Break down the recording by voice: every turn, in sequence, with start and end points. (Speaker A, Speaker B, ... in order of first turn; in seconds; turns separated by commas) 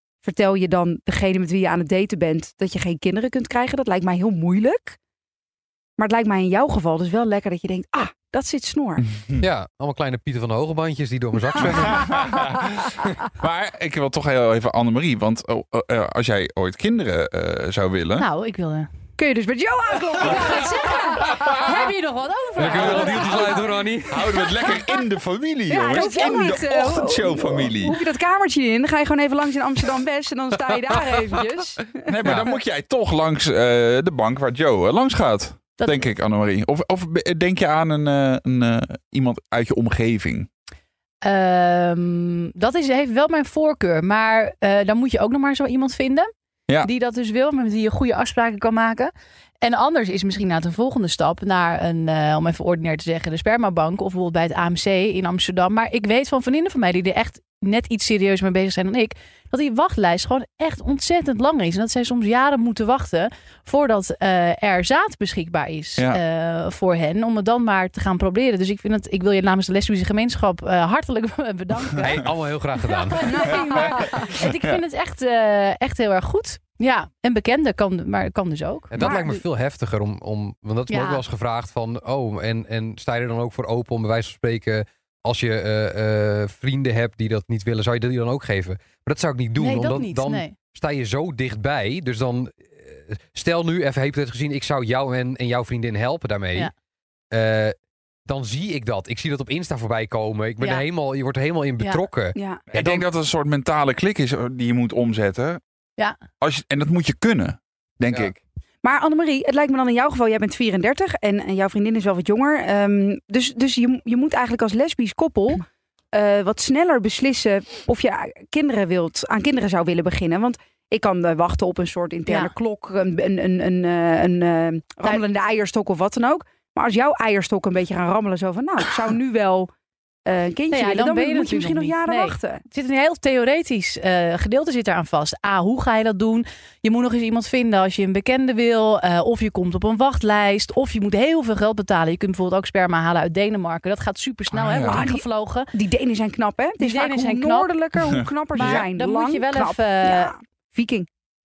Speaker A: 0.2-5.0, Speaker A: 6.0-9.0, Speaker B: 9.1-9.4, Speaker C: 9.4-12.3, Speaker B: 11.6-18.3, Speaker D: 18.2-18.9, Speaker A: 19.2-21.3, Speaker D: 20.2-23.8, Speaker B: 21.2-21.6, Speaker C: 22.6-24.4, Speaker B: 22.6-28.0, Speaker A: 25.7-32.0, Speaker C: 30.9-31.4, Speaker B: 32.0-40.5, Speaker C: 32.2-32.5, Speaker D: 35.8-36.0, Speaker D: 41.2-46.3, Speaker D: 46.8-72.3, Speaker C: 72.0-73.9, Speaker D: 72.8-79.2, Speaker A: 73.3-73.8, Speaker B: 73.5-74.8, Speaker C: 78.9-96.7, Speaker A: 79.0-79.4, Speaker D: 80.9-81.2, Speaker D: 89.6-90.5, Speaker C: 97.3-97.7, Speaker C: 98.2-103.0, Speaker A: 102.3-102.6, Speaker B: 102.7-105.6, Speaker B: 106.4-108.4, Speaker A: 108.8-129.7, Speaker D: 122.2-122.5, Speaker A: 130.2-132.6, Speaker D: 130.7-145.7, Speaker B: 144.5-145.1, Speaker A: 144.9-151.1, Speaker D: 146.8-147.7, Speaker B: 148.0-148.9, Speaker D: 148.5-150.3